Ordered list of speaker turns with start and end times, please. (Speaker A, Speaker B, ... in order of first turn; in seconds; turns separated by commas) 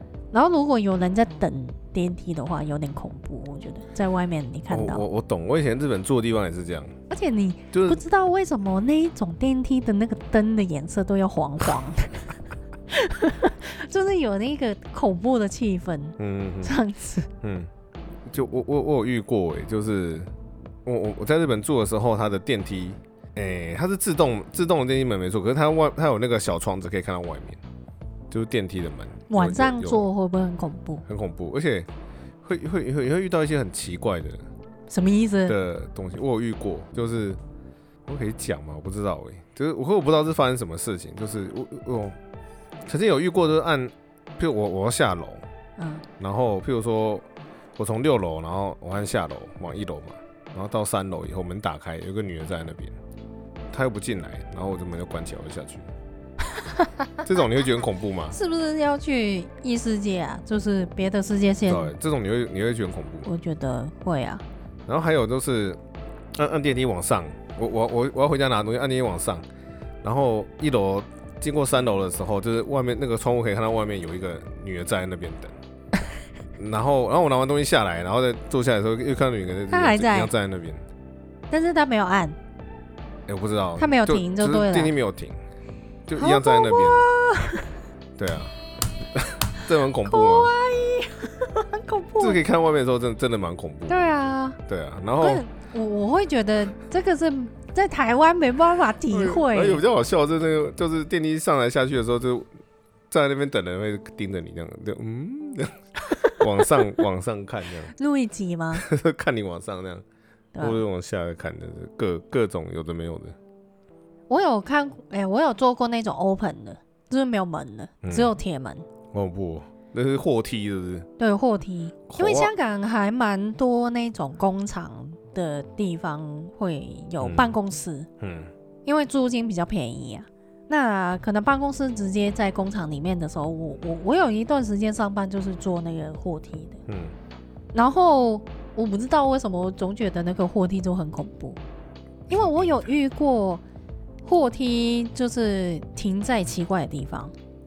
Speaker A: 0.3-5.0, Speaker B: 4.7-6.9, Speaker A: 7.1-12.3, Speaker B: 7.7-8.0, Speaker A: 12.9-17.3, Speaker B: 16.2-16.7, Speaker B: 17.4-17.7, Speaker B: 18.3-20.3, Speaker B: 20.8-27.6, Speaker B: 28.3-30.1, Speaker A: 29.3-31.0, Speaker B: 31.1-31.9, Speaker B: 32.4-34.5, Speaker A: 34.9-35.5, Speaker B: 35.5-37.4, Speaker B: 38.0-42.1, Speaker B: 42.9-45.4, Speaker A: 45.8-46.0, Speaker B: 46.2-52.9, Speaker B: 53.7-55.9, Speaker A: 56.5-57.2, Speaker B: 57.2-58.4, Speaker A: 58.3-61.9, Speaker B: 61.6-63.3, Speaker A: 63.2-64.4, Speaker B: 64.8-65.8, Speaker B: 66.3-69.4, Speaker B: 70.0-75.5, Speaker B: 76.6-80.8, Speaker A: 79.7-80.3, Speaker A: 81.5-82.3, Speaker B: 83.3-85.4, Speaker A: 83.8-84.9, Speaker B: 86.1-87.0, Speaker A: 86.2-87.7, Speaker B: 88.2-88.5, Speaker B: 89.1-90.5, Speaker A: 90.0-92.4, Speaker B: 92.2-94.1, Speaker A: 93.9-94.6, Speaker B: 94.7-95.4, Speaker A: 95.2-99.8, Speaker B: 99.1-102.5, Speaker B: 103.1-105.8, Speaker A: 106.1-106.9, Speaker B: 106.4-107.9, Speaker A: 107.9-108.9, Speaker B: 108.7-110.0, Speaker A: 110.5-110.8, Speaker B: 110.6-113.3, Speaker A: 114.3-118.8, Speaker B: 118.0-118.3, Speaker B: 119.1-121.1, Speaker A: 121.2-128.1, Speaker B: 122.1-122.5, Speaker B: 127.2-127.5, Speaker B: 128.2-128.5, Speaker A: 128.8-136.8, Speaker B: 136.9-137.2, Speaker A: 137.7-141.6, Speaker A: 142.3-143.6, Speaker B: 142.3-142.7, Speaker A: 144.2-147.3